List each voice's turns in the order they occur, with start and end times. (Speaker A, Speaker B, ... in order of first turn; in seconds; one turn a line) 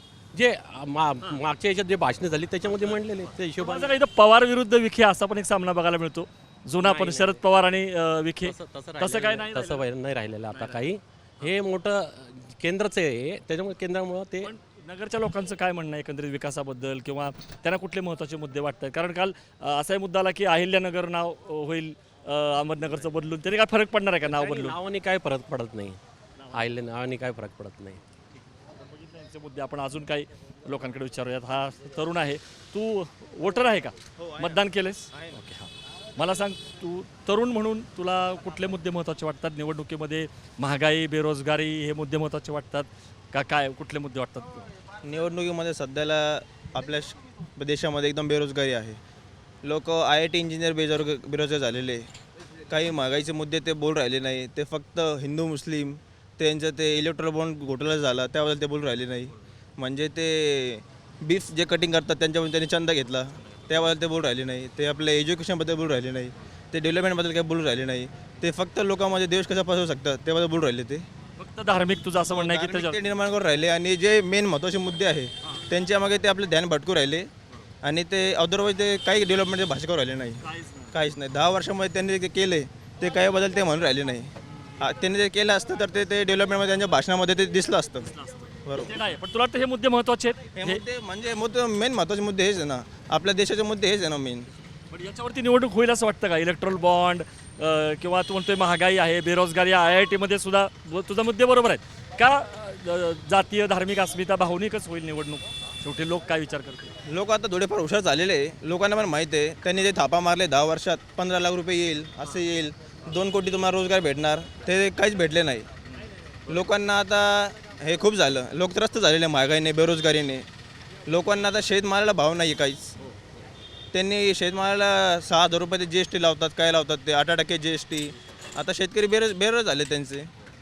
Speaker A: 0.3-3.9
Speaker B: 3.6-9.8
Speaker A: 6.8-7.4
Speaker A: 8.4-14.5
Speaker B: 10.5-10.9
Speaker B: 14.4-24.8
Speaker A: 24.2-26.0
Speaker A: 26.5-28.0
Speaker B: 28.8-44.7
Speaker C: 34.2-35.3
Speaker C: 45.0-49.0
Speaker C: 49.6-52.0
Speaker C: 52.7-71.0
Speaker B: 71.4-73.0
Speaker C: 72.3-77.3
Speaker C: 77.8-80.3
Speaker B: 80.4-80.9
Speaker C: 80.9-84.3
Speaker C: 84.8-88.1
Speaker B: 88.1-90.8
Speaker C: 88.7-89.0
Speaker C: 90.5-94.4
Speaker B: 94.9-106.9
Speaker C: 107.1-115.6
Speaker C: 116.5-120.4
Speaker C: 121.1-122.9
Speaker C: 123.9-130.3